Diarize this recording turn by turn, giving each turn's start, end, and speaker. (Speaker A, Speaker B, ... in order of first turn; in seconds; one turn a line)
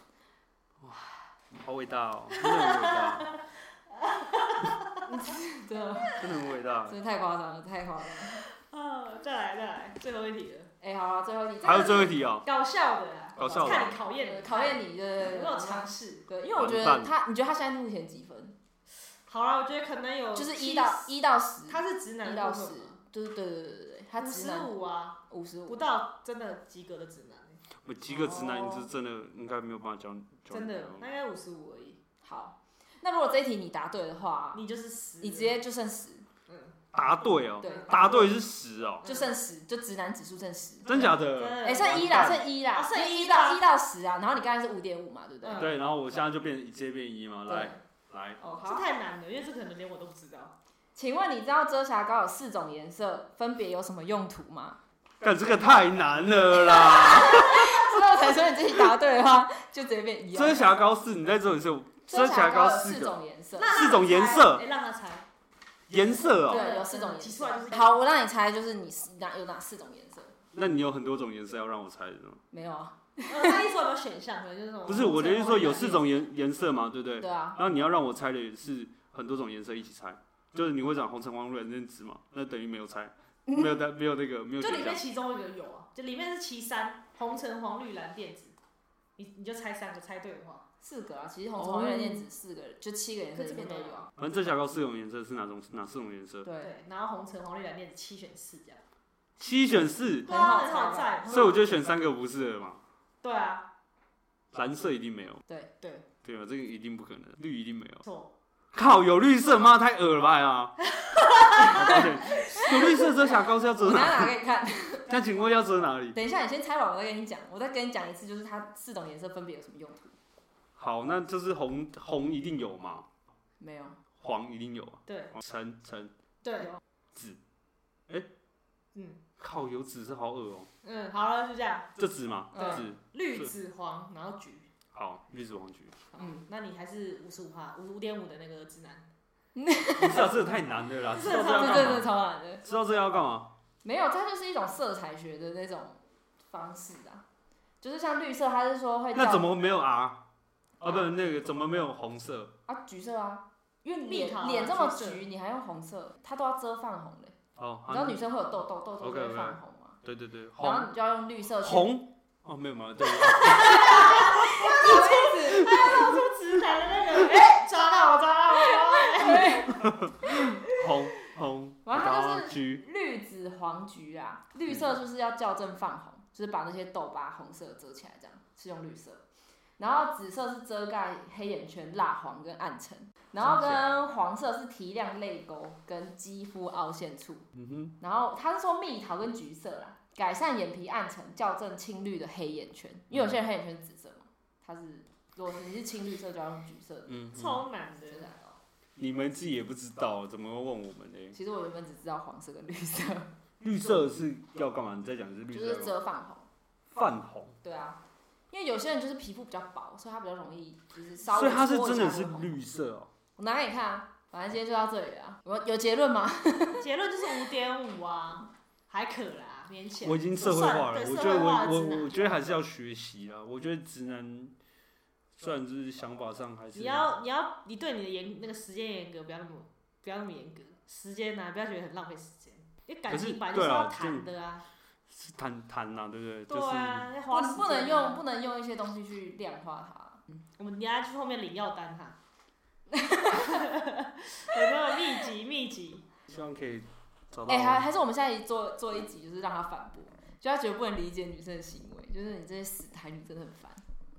Speaker A: 0.8-3.3
Speaker B: 2.4-5.1
Speaker C: 5.0-6.2
Speaker A: 6.1-7.0
Speaker C: 6.8-8.4
Speaker B: 8.3-10.7
Speaker C: 10.8-12.2
Speaker A: 11.6-12.5
Speaker B: 12.4-16.2
Speaker A: 13.3-14.0
Speaker C: 13.6-18.6
Speaker A: 16.6-17.1
Speaker B: 19.2-21.1
Speaker C: 20.3-24.7
Speaker B: 21.7-22.9
Speaker B: 24.2-28.9
Speaker C: 25.3-25.8
Speaker A: 27.8-31.1
Speaker B: 30.5-32.0
Speaker C: 32.2-34.6
Speaker B: 34.5-35.6
Speaker C: 35.2-36.3
Speaker B: 36.5-36.8
Speaker A: 36.9-39.0
Speaker B: 37.6-38.3
Speaker B: 39.0-39.3
Speaker C: 39.0-45.7
Speaker A: 40.8-42.4
Speaker B: 40.9-43.6
Speaker B: 45.4-45.7
Speaker A: 45.5-48.4
Speaker C: 48.4-48.8
Speaker B: 48.4-50.5
Speaker C: 51.0-54.8
Speaker A: 55.2-57.9
Speaker C: 56.7-60.7
Speaker A: 60.3-64.6
Speaker C: 62.1-64.4
Speaker B: 63.6-65.2
Speaker A: 65.9-66.7
Speaker B: 66.3-68.0
Speaker C: 66.5-70.4
Speaker A: 70.5-72.4
Speaker C: 72.5-73.7
Speaker B: 73.3-76.0
Speaker A: 74.8-85.0
Speaker C: 77.2-77.6
Speaker B: 84.6-88.5
Speaker B: 89.2-90.7
Speaker C: 90.8-94.1
Speaker B: 91.5-92.2
Speaker B: 93.3-94.1
Speaker A: 94.2-96.5
Speaker C: 96.4-96.8
Speaker B: 96.6-98.8
Speaker A: 99.4-100.3
Speaker B: 100.2-101.7
Speaker C: 100.3-101.3
Speaker A: 101.2-102.8
Speaker B: 103.2-103.7
Speaker A: 104.5-105.4
Speaker B: 105.8-106.1
Speaker A: 106.2-108.0
Speaker B: 108.0-108.3
Speaker A: 108.7-110.8
Speaker B: 111.1-111.9
Speaker A: 111.4-114.3
Speaker C: 111.8-112.0
Speaker C: 113.8-115.1
Speaker A: 115.1-116.2
Speaker C: 116.1-120.2
Speaker A: 120.8-123.1
Speaker C: 123.6-124.0
Speaker A: 124.2-126.1
Speaker B: 125.1-125.3
Speaker B: 126.4-126.8
Speaker A: 127.1-127.4
Speaker B: 128.9-129.2
Speaker A: 129.4-130.7
Speaker B: 130.8-131.9
Speaker A: 131.9-133.5
Speaker B: 132.5-134.7
Speaker A: 134.9-136.0
Speaker B: 136.1-139.1
Speaker C: 139.5-140.3
Speaker A: 139.9-143.5
Speaker B: 141.1-142.1
Speaker C: 141.2-142.6
Speaker C: 143.8-147.2
Speaker C: 147.8-149.5
Speaker A: 149.1-150.2
Speaker A: 150.8-152.5
Speaker C: 152.7-157.3
Speaker B: 154.0-155.2
Speaker A: 157.6-158.2
Speaker C: 157.9-160.0
Speaker A: 159.0-160.9
Speaker C: 160.6-161.9
Speaker A: 161.6-164.6
Speaker B: 163.7-169.7
Speaker C: 163.9-166.2
Speaker C: 168.9-169.8
Speaker A: 169.7-172.8
Speaker C: 171.8-179.2
Speaker C: 179.8-187.5
Speaker A: 183.4-183.8
Speaker A: 187.5-187.9
Speaker C: 188.0-197.2
Speaker A: 193.1-193.4
Speaker A: 197.1-197.6
Speaker B: 197.3-198.3
Speaker C: 198.1-198.6
Speaker A: 199.0-201.4
Speaker C: 201.3-203.3
Speaker A: 203.6-205.9
Speaker C: 205.5-206.5
Speaker A: 206.9-207.6
Speaker C: 207.6-212.5
Speaker A: 211.3-213.1
Speaker C: 213.4-216.9
Speaker B: 216.8-222.5
Speaker A: 220.0-224.6
Speaker A: 225.4-227.1
Speaker B: 226.7-234.7
Speaker A: 233.1-234.3
Speaker A: 235.1-237.1
Speaker B: 236.5-238.2
Speaker C: 237.3-240.2
Speaker B: 240.6-242.2
Speaker C: 242.9-243.6
Speaker B: 243.3-246.1
Speaker A: 246.3-247.9
Speaker C: 247.5-253.8